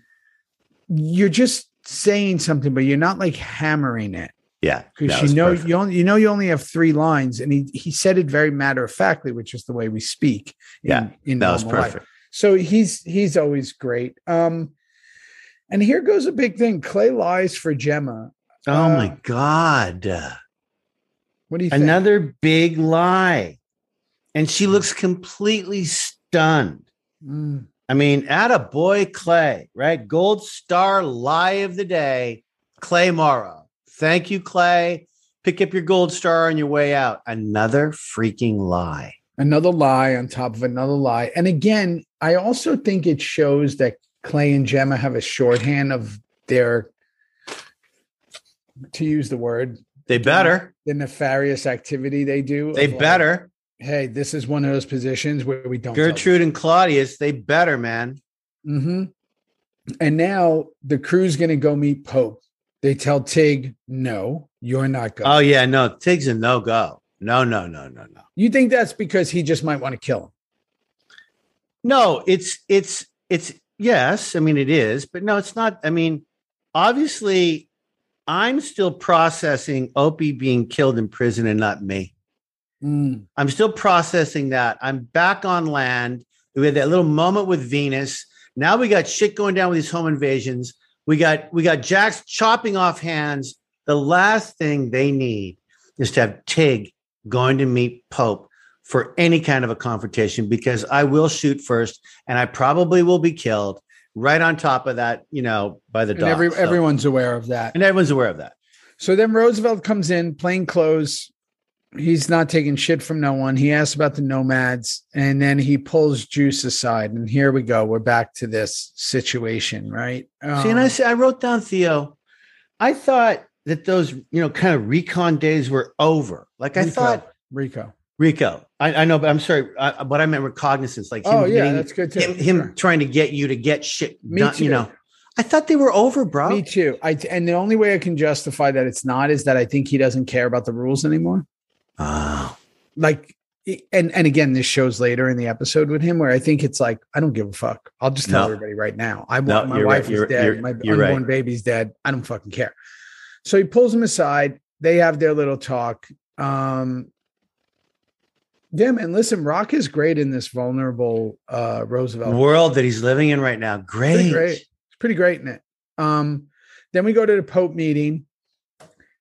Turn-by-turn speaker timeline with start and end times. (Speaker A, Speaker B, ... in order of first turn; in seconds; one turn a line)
Speaker A: 0.9-4.3
Speaker B: 4.6-5.7
Speaker A: 5.0-14.7
Speaker B: 10.8-12.0
Speaker A: 15.7-19.1
Speaker B: 18.7-20.4
Speaker A: 21.5-22.0
Speaker B: 21.7-23.6
Speaker B: 24.3-26.9
Speaker A: 27.2-27.7
Speaker B: 27.9-39.1
Speaker A: 39.4-46.9
Speaker A: 48.9-53.2
Speaker B: 50.1-50.7
Speaker B: 52.7-53.5
Speaker A: 53.8-56.3
Speaker B: 55.9-58.2
Speaker A: 58.6-59.1
Speaker A: 60.0-65.3
Speaker B: 65.2-68.2
Speaker A: 68.3-70.3
Speaker B: 71.8-76.2
Speaker B: 76.7-77.7
Speaker B: 78.3-82.1
Speaker A: 82.8-83.2
Speaker B: 83.3-106.8
Speaker A: 106.1-107.7
Speaker B: 107.7-108.5
Speaker A: 109.0-111.3
Speaker A: 111.9-120.9
Speaker B: 120.5-122.2
Speaker B: 122.8-127.2
Speaker A: 126.8-127.9
Speaker B: 128.2-136.6
Speaker A: 131.2-132.7
Speaker A: 134.3-134.9
Speaker A: 136.5-141.4
Speaker B: 142.0-142.6
Speaker A: 142.9-152.7
Speaker B: 148.3-148.5
Speaker B: 149.4-151.2
Speaker A: 153.4-157.1
Speaker A: 158.7-162.4
Speaker B: 162.2-164.6
Speaker A: 164.1-168.2